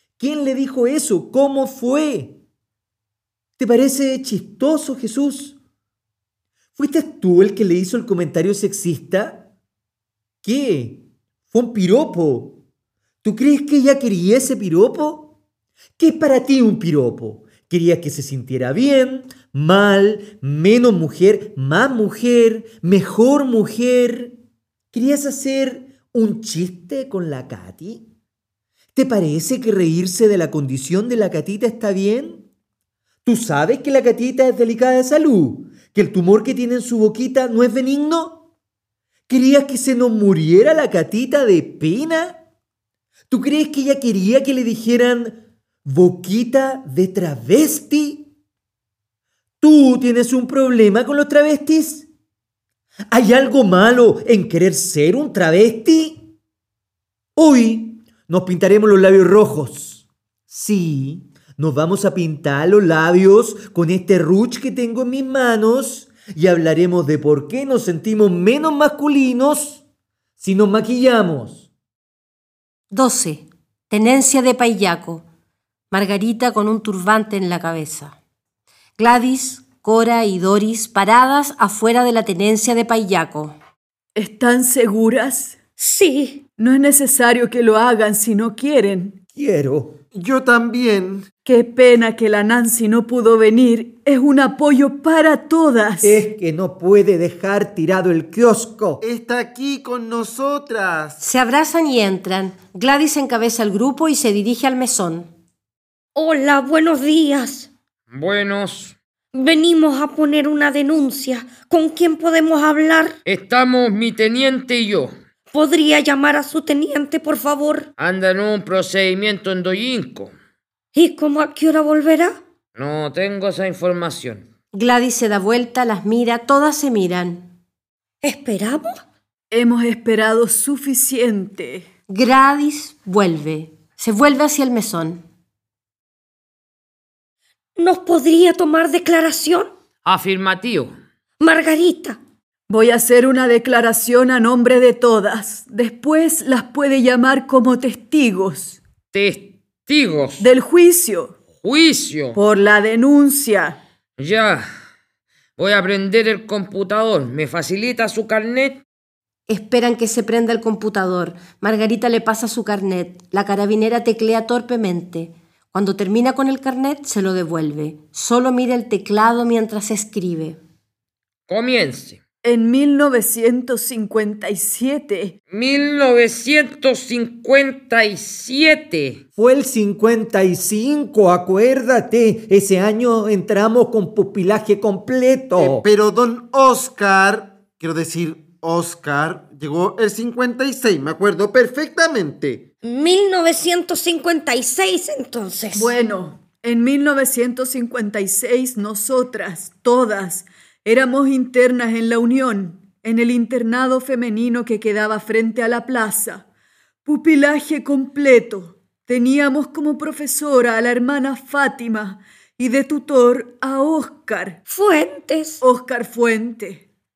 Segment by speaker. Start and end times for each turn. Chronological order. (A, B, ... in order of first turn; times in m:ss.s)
0:00.2-0:02.4 A
0:03.6-0:05.6 A
0:06.8-0:09.5 A
0:10.4-0:12.6 A
0:13.2-0:15.3 A
0:16.0-0:24.4 A
0:24.9-0:28.1 A
0:28.9-0:32.4 A
0:33.2-0:38.4 A
0:39.3-0:42.4 A
0:43.3-0:48.3 A
0:49.6-0:52.1 A
0:53.1-0:56.3 A
0:57.4-1:09.8 A
1:10.4-1:11.6 A
1:12.9-1:15.2 B
1:15.9-1:18.2 B
1:19.0-1:23.6 B
1:24.2-1:25.6 C
1:25.8-1:26.4 D
1:26.6-1:29.2 C
1:29.3-1:30.0 A
1:30.1-1:31.3 E
1:31.4-1:36.2 C
1:36.0-1:39.0 A
1:39.0-1:41.2 E
1:41.2-1:45.3 B
1:46.2-1:47.7 D
1:48.1-1:49.0 F
1:49.3-1:53.2 D
1:53.2-1:55.1 F
1:55.5-1:57.9 D
1:58.0-2:00.3 F
2:00.9-2:02.3 D
2:02.8-2:04.4 F
2:04.7-2:07.5 B
2:08.2-2:08.9 D
2:09.5-2:11.9 C
2:12.1-2:15.2 B
2:17.8-2:19.7 D
2:20.0-2:21.0 F
2:21.4-2:22.2 D
2:22.7-2:28.8 C
2:29.1-2:30.5 F
2:30.4-2:31.4 C
2:31.5-2:32.4 F
2:32.3-2:33.8 C
2:34.2-2:34.6 F
2:35.6-2:38.8 F
2:39.5-2:50.6 B
2:51.5-2:52.2 F
2:52.4-2:55.4 C
2:55.5-2:59.2 F
2:59.4-3:05.8 A
3:05.6-3:12.6 E
3:12.8-3:15.9 D
3:15.7-3:26.4 C
3:27.0-3:34.6 C
3:34.7-3:35.6 D
3:35.6-3:36.8 C